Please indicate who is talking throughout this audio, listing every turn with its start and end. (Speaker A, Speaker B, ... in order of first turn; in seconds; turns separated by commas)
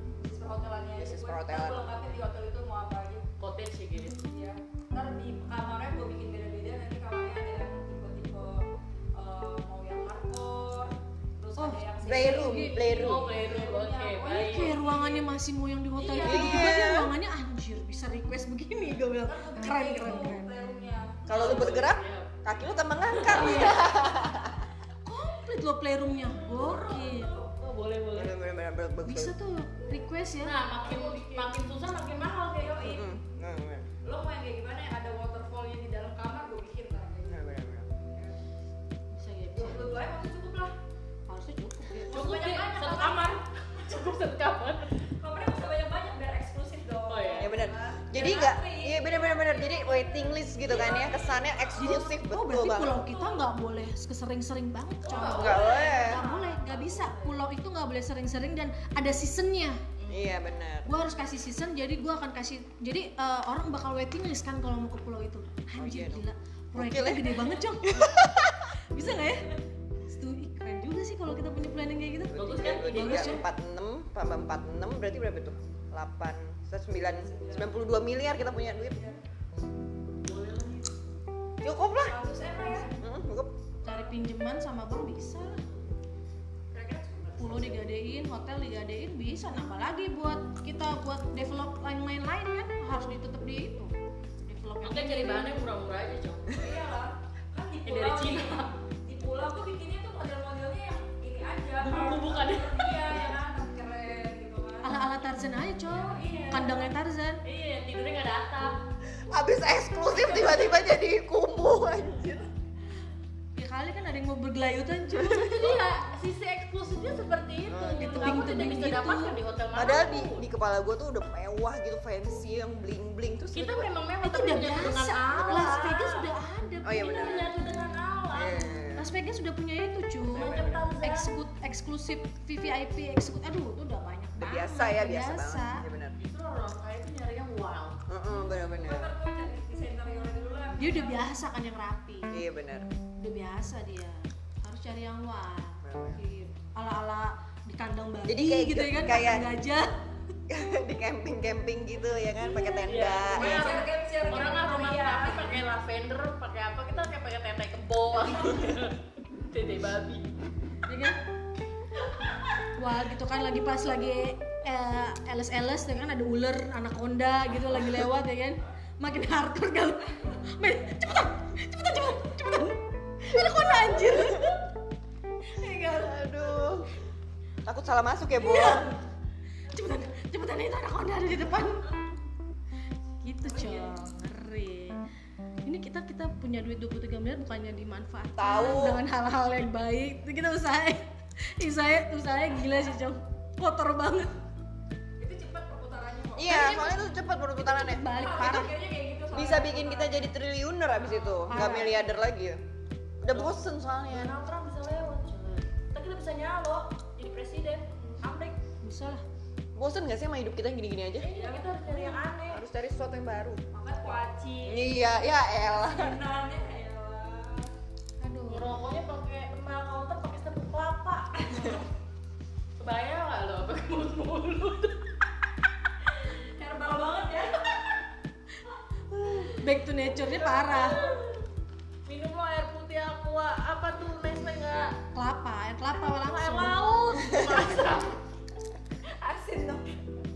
Speaker A: 0.2-3.2, Speaker B: 1.0-2.1, Speaker C: 3.4-4.2, Speaker A: 4.2-8.7, Speaker A: 9.2-15.3, Speaker D: 11.6-12.8, Speaker B: 12.0-13.3, Speaker C: 12.7-14.8, Speaker D: 14.5-20.5, Speaker A: 16.0-16.8, Speaker B: 16.1-17.1, Speaker A: 19.3-21.7, Speaker C: 21.3-22.3, Speaker B: 21.3-24.6, Speaker C: 23.1-23.8, Speaker D: 23.2-24.0, Speaker D: 25.1-27.3, Speaker A: 26.5-27.6, Speaker C: 27.6-28.3, Speaker B: 28.1-29.3, Speaker D: 29.1-30.6, Speaker C: 30.4-32.8, Speaker A: 30.9-31.2, Speaker A: 32.6-33.1, Speaker B: 32.8-33.9, Speaker A: 34.0-38.4, Speaker B: 37.3-37.9, Speaker D: 39.1-40.0, Speaker A: 39.5-40.8, Speaker D: 41.3-42.1, Speaker A: 42.0-43.4, Speaker C: 42.1-45.0, Speaker A: 45.2-52.0, Speaker C: 47.1-47.6, Speaker B: 47.4-53.2, Speaker D: 51.8-59.8, Speaker C: 55.0-57.4, Speaker A: 55.1-56.5, Speaker B: 55.4-56.2, Speaker C: 60.0-60.3, Speaker B: 60.1-60.9, Speaker D: 60.9-68.0, Speaker B: 65.8-68.7, Speaker D: 68.9-69.6, Speaker D: 70.1-73.4, Speaker B: 72.3-79.1, Speaker C: 72.3-73.4, Speaker A: 77.2-77.7, Speaker A: 78.9-79.2, Speaker C: 80.2-80.9, Speaker B: 81.6-82.2, Speaker A: 82.0-82.9, Speaker B: 83.0-83.5, Speaker D: 83.8-85.6, Speaker A: 86.7-87.8, Speaker D: 87.4-93.9, Speaker D: 94.5-95.6, Speaker C: 94.8-96.6, Speaker A: 96.5-105.0, Speaker C: 97.9-98.7, Speaker C: 101.8-103.3, Speaker D: 104.8-107.4, Speaker A: 105.9-106.9, Speaker C: 107.5-108.8, Speaker B: 109.3-112.5, Speaker D: 113.6-115.8, Speaker C: 115.2-120.4, Speaker B: 117.7-118.5, Speaker D: 118.0-119.4, Speaker B: 119.8-123.9, Speaker C: 123.5-126.2, Speaker D: 124.2-127.5, Speaker A: 125.2-125.8, Speaker B: 125.2-125.7, Speaker B: 126.8-127.5, Speaker C: 127.1-128.8, Speaker B: 128.3-129.1, Speaker D: 129.0-135.8, Speaker B: 130.3-130.9, Speaker C: 130.3-131.3, Speaker B: 134.4-136.2, Speaker C: 136.2-138.0, Speaker B: 138.1-139.1, Speaker A: 138.4-141.2, Speaker D: 140.8-142.4, Speaker B: 142.3-142.9, Speaker D: 143.2-149.9, Speaker B: 145.8-146.2, Speaker B: 148.3-149.5, Speaker B: 150.5-153.7, Speaker C: 152.8-160.3, Speaker A: 153.4-155.6, Speaker D: 160.9-161.2, Speaker D: 162.8-174.6, Speaker D: 175.5-176.8, Speaker B: 175.9-176.9, Speaker B: 177.7-178.9, Speaker D: 178.4-179.0, Speaker D: 179.7-181.9, Speaker D: 183.2-185.0, Speaker A: 183.5-183.9, Speaker D: 185.7-194.3, Speaker B: 188.4-189.0, Speaker A: 195.2-196.9, Speaker B: 196.4-198.7, Speaker D: 196.5-197.0, Speaker D: 197.6-198.7, Speaker A: 198.1-200.3, Speaker B: 199.3-202.6, Speaker C: 201.0-201.6, Speaker D: 201.5-202.1, Speaker B: 203.2-204.3, Speaker C: 203.3-208.6, Speaker D: 208.8-209.2, Speaker B: 209.8-211.3, Speaker C: 211.2-212.6, Speaker A: 211.3-212.2, Speaker B: 212.5-213.6, Speaker A: 213.7-214.9, Speaker B: 214.6-216.2, Speaker A: 215.7-217.7, Speaker D: 218.2-218.7, Speaker C: 218.5-221.9, Speaker C: 222.8-225.1, Speaker A: 226.2-227.8, Speaker A: 229.2-229.5, Speaker D: 229.6-231.0, Speaker A: 230.2-231.2, Speaker C: 230.6-231.4, Speaker C: 232.1-234.9, Speaker D: 235.2-237.4, Speaker C: 236.2-238.2, Speaker A: 239.1-239.9